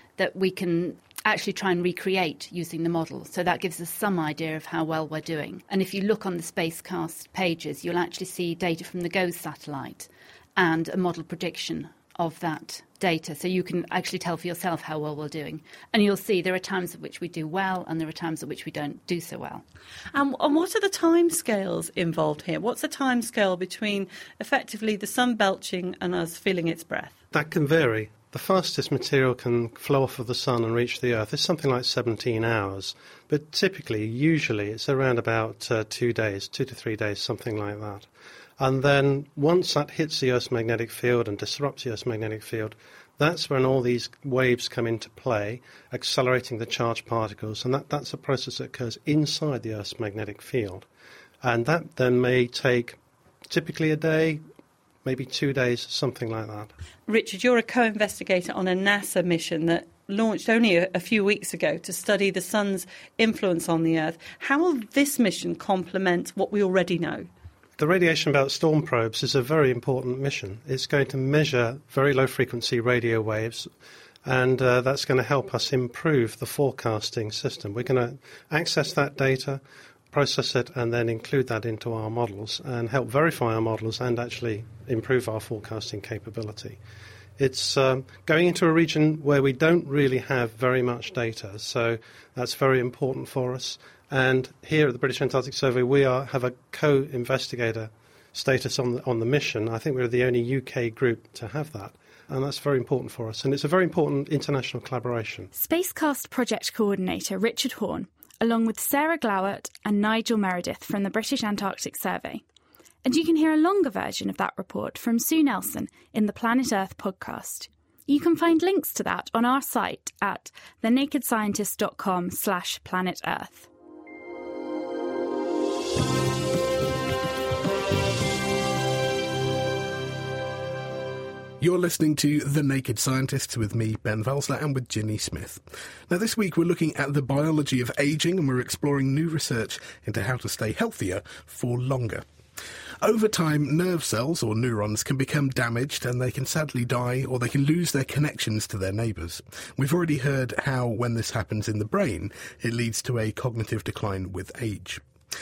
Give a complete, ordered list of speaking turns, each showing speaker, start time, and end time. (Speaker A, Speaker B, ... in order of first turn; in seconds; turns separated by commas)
Speaker A: 0.2-19.6, Speaker B: 20.1-27.2, Speaker C: 27.3-50.9, Speaker C: 51.4-54.4, Speaker C: 55.0-56.7, Speaker B: 57.1-67.3, Speaker C: 67.8-86.8, Speaker C: 87.4-105.5, Speaker D: 105.5-112.4, Speaker D: 113.0-123.7, Speaker E: 131.6-142.2, Speaker E: 143.0-155.0